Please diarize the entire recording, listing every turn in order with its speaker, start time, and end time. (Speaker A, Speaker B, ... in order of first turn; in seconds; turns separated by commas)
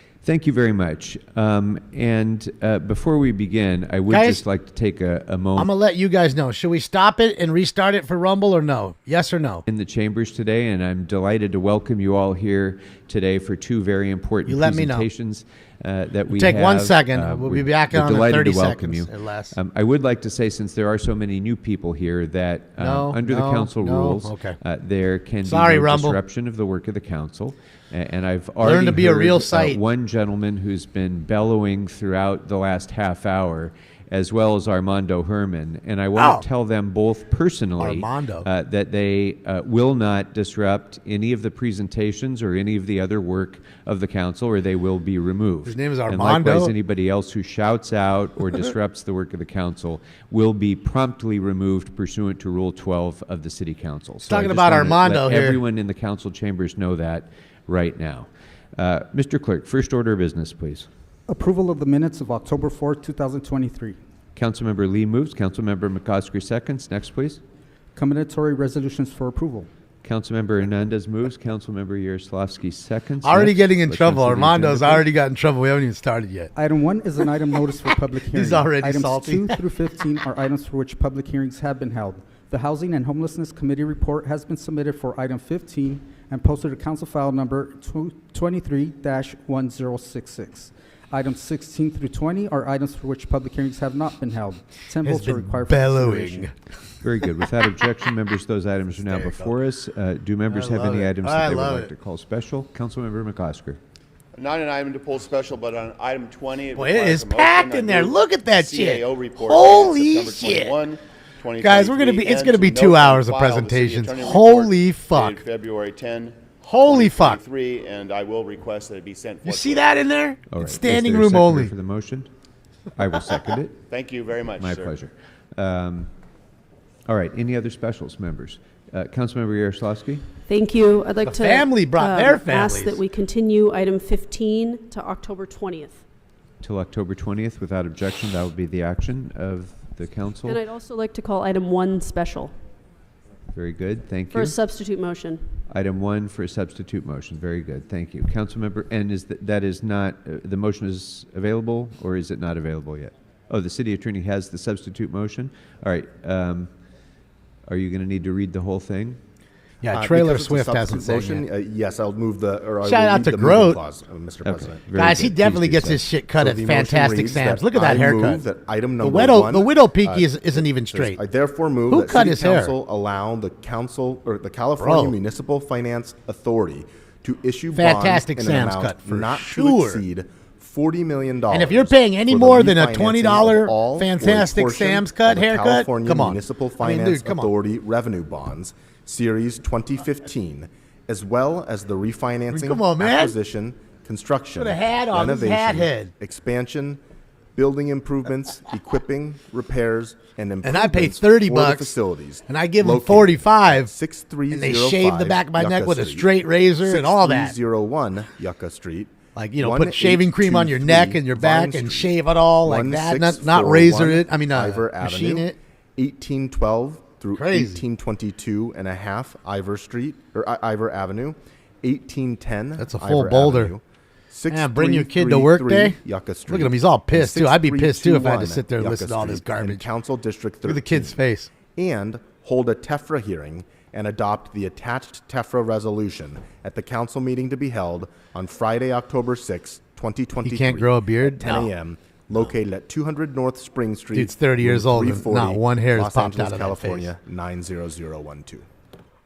Speaker A: 0.2-5.7, Speaker B: 4.1-4.4, Speaker B: 5.5-9.6, Speaker A: 9.7-60.9, Speaker B: 14.4-15.1, Speaker B: 16.3-19.6, Speaker B: 22.8-24.6, Speaker B: 25.4-26.2, Speaker B: 28.6-29.8, Speaker B: 36.1-36.4, Speaker B: 37.8-38.5, Speaker B: 45.6-46.7, Speaker B: 54.3-55.6, Speaker C: 61.3-64.0, Speaker A: 64.3-67.4, Speaker C: 67.9-69.7, Speaker A: 70.0-75.0, Speaker B: 73.2-76.5, Speaker C: 76.5-96.5, Speaker B: 78.3-79.6, Speaker B: 95.0-96.5, Speaker A: 97.0-103.8, Speaker B: 99.1-99.5, Speaker B: 100.5-101.9, Speaker D: 104.3-120.0, Speaker B: 106.8-110.8, Speaker B: 111.6-115.4, Speaker B: 116.6-117.4, Speaker B: 119.4-121.7, Speaker A: 120.5-122.3, Speaker A: 122.9-123.8, Speaker D: 123.9-124.9, Speaker A: 124.6-126.1, Speaker A: 127.1-130.3, Speaker E: 130.4-136.0, Speaker B: 131.2-133.0, Speaker A: 136.6-140.6, Speaker E: 140.4-142.5, Speaker A: 143.5-144.6, Speaker E: 144.3-145.6, Speaker A: 145.7-156.7, Speaker A: 157.7-159.2, Speaker B: 159.8-161.4, Speaker F: 159.9-164.8, Speaker B: 162.8-163.8, Speaker A: 164.4-166.0, Speaker B: 164.9-168.4, Speaker F: 166.4-197.0, Speaker B: 169.0-171.2, Speaker B: 171.9-172.7, Speaker B: 174.8-175.1, Speaker B: 177.7-180.0, Speaker B: 181.5-187.5, Speaker B: 192.5-193.3, Speaker B: 194.6-196.1, Speaker F: 197.5-206.3, Speaker B: 200.6-201.9, Speaker B: 202.5-203.9, Speaker B: 204.5-207.5, Speaker F: 206.8-231.2, Speaker B: 209.3-215.6, Speaker B: 217.3-217.8, Speaker B: 222.8-223.7, Speaker B: 224.5-229.9, Speaker B: 230.6-231.5, Speaker F: 231.7-248.7, Speaker B: 240.4-241.7, Speaker B: 244.1-247.1